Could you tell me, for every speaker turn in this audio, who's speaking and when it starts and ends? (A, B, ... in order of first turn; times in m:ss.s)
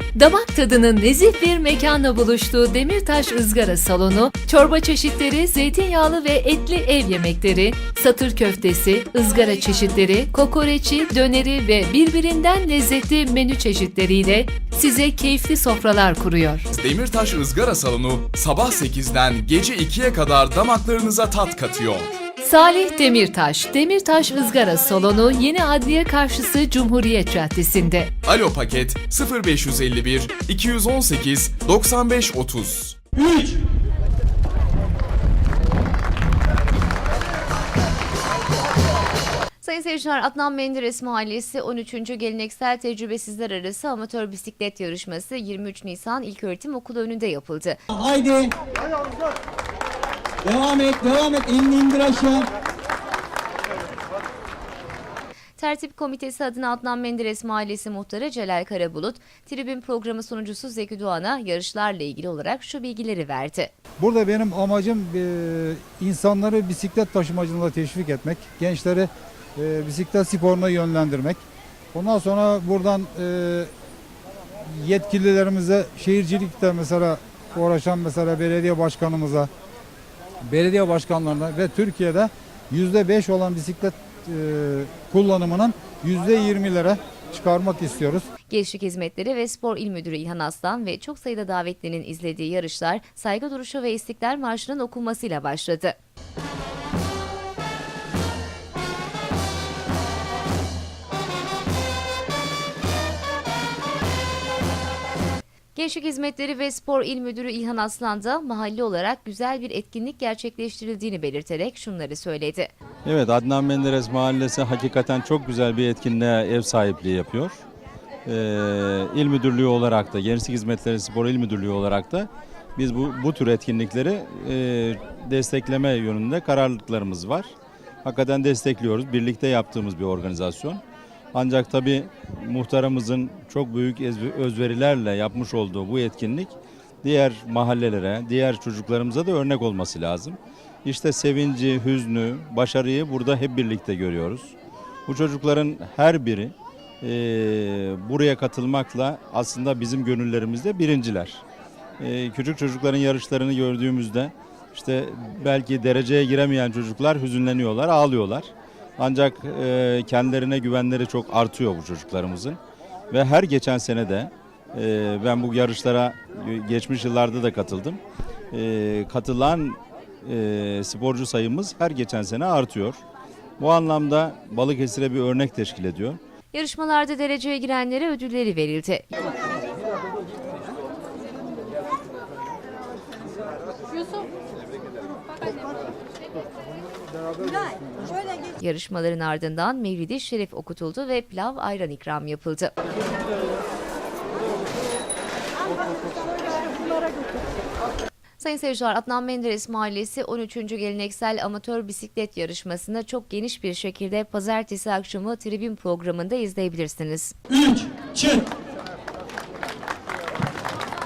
0:00.1-0:16.7 A
0:16.7-0:22.1 B
0:22.4-0:28.1 A
0:28.2-0:33.0 B
0:39.6-0:47.8 C
0:47.9-0:48.6 D
0:50.4-0:52.5 D
0:55.6-1:03.7 C
1:04.0-1:11.4 E
1:11.9-1:13.7 E
1:14.6-1:19.5 E
1:20.5-1:28.2 E
1:28.5-1:36.0 C
1:45.8-1:52.7 C
1:53.0-1:57.6 F
1:58.2-2:10.8 F
2:11.3-2:24.6 F
2:25.1-2:31.4 F
2:32.0-2:42.6 F
2:43.1-2:48.0 F
2:48.5-2:53.0 F
2:53.6-2:56.2 F
2:56.5-2:59.1 C
3:07.4-3:08.2 E
3:08.6-3:12.8 C
3:18.4-3:27.4 C
3:27.6-3:28.4 D